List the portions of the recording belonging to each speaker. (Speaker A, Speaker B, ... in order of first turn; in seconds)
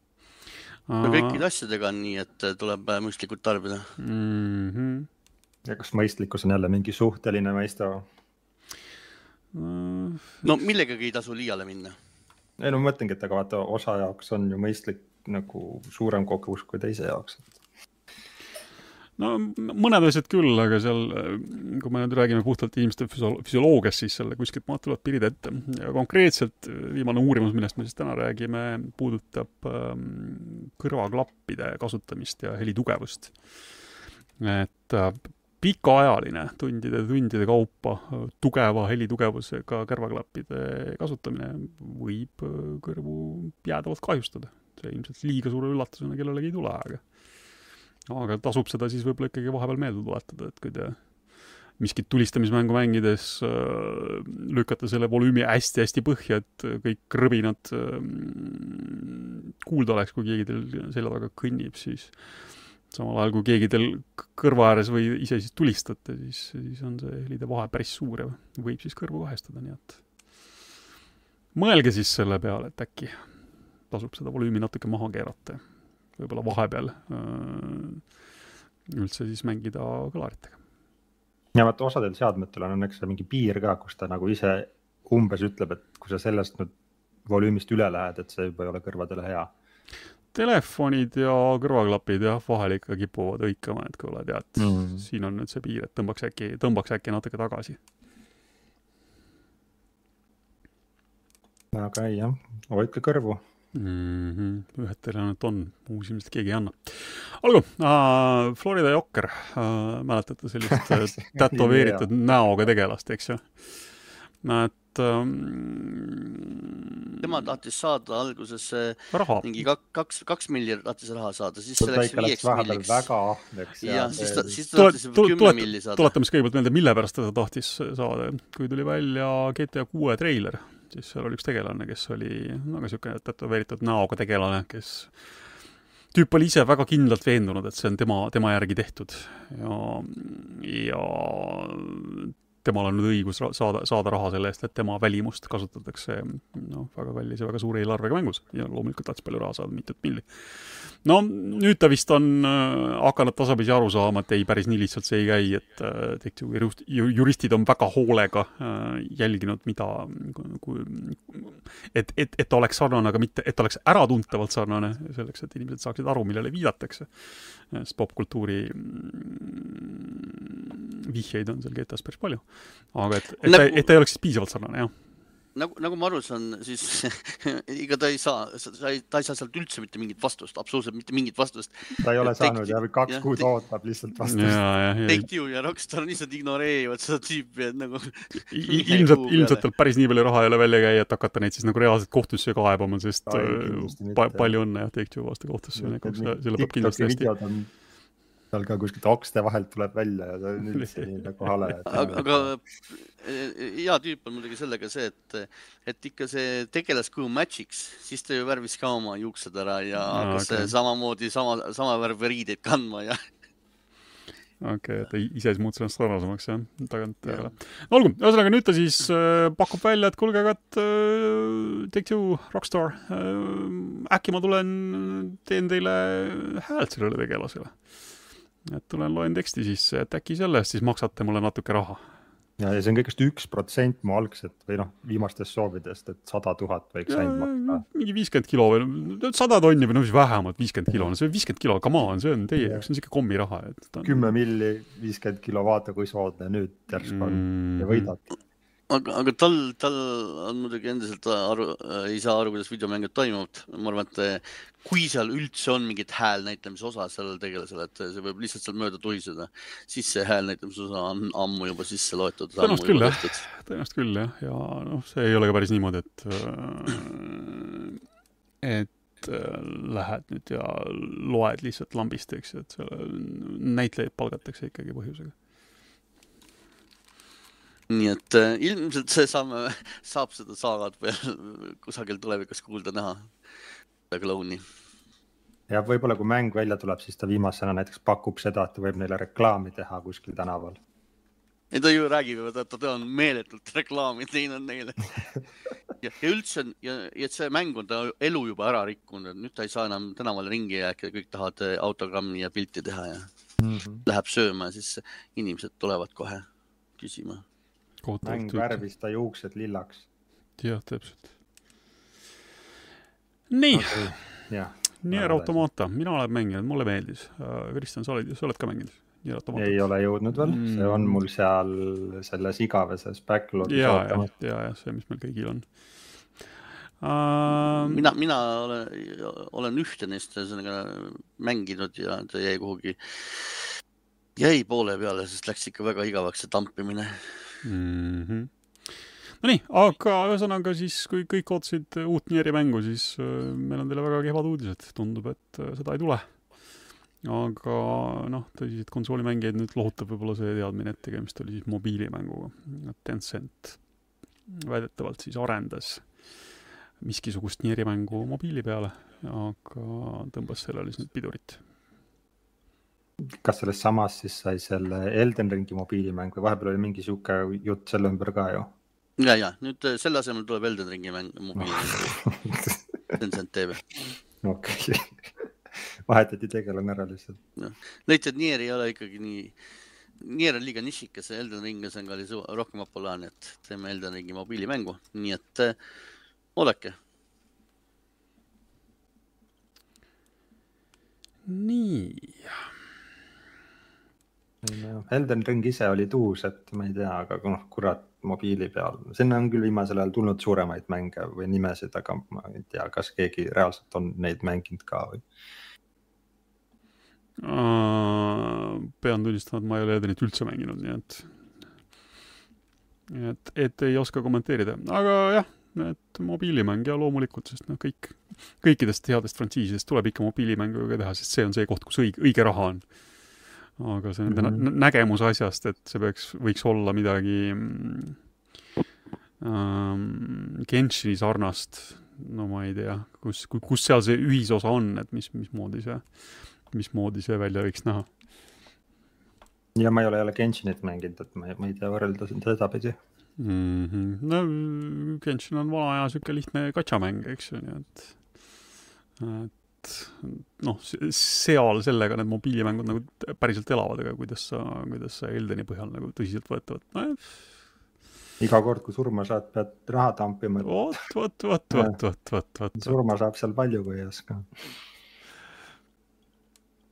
Speaker A: 0.9-1.4, 4.0-5.1, 9.5-10.4, 19.2-33.3, 34.4-47.0, 48.1-51.0, 51.7-70.0, 71.5-73.2, 73.9-75.6, 76.1-78.0, 78.9-80.6, 90.3-97.8, 103.7-113.9, 114.4-116.8, 119.1-119.6, 124.7-135.3, 136.1-174.9, 184.2-185.3, 188.5-197.3, 200.7-201.8, 210.1-210.7, 214.6-227.8, 228.7-232.0, 237.1-244.3, 247.0-248.1, 262.6-268.0, 268.6-275.3, 308.0-308.8, 310.6-311.3, 313.5-321.2, 323.6-325.6, 327.0-328.1, 337.6-346.3, 347.2-353.8, 354.5-356.1, 357.0-361.6, 391.4-392.6, 407.4-411.3, 413.1-422.8, 423.8-428.2, 429.4-438.1, 443.4-448.1, 449.2-457.4, 460.6-463.0
Speaker B: 1.0-3.9, 10.4-11.9, 117.2-123.0, 123.8-126.1, 173.4-173.9, 175.5-183.5, 185.1-189.6, 201.9-213.2, 248.9-263.5, 277.9-283.3, 284.1-284.6, 291.7-295.2, 296.0-303.3, 304.1-306.4, 307.0-307.4, 327.6-333.7, 334.4-337.4, 369.2-372.1, 373.2-374.0, 377.6-379.6, 380.2-385.8, 386.6-387.0
Speaker C: 5.7-8.1, 12.6-17.5, 81.5-86.7, 87.3-89.5, 94.6-95.0, 101.7-103.4, 110.7-112.1, 121.8-124.5, 182.0-184.6, 193.3-194.6, 195.8-197.7, 198.5-202.5, 232.6-237.8, 242.6-242.8, 244.0-248.2, 285.7-290.8, 303.6-304.0, 308.2-310.1, 313.7-315.6, 319.5-324.3, 363.2-368.7, 371.6-373.2, 374.4-377.4, 394.6-405.2, 424.3-424.6, 439.8-442.9, 458.4-460.9, 461.7-462.0, 462.8-464.5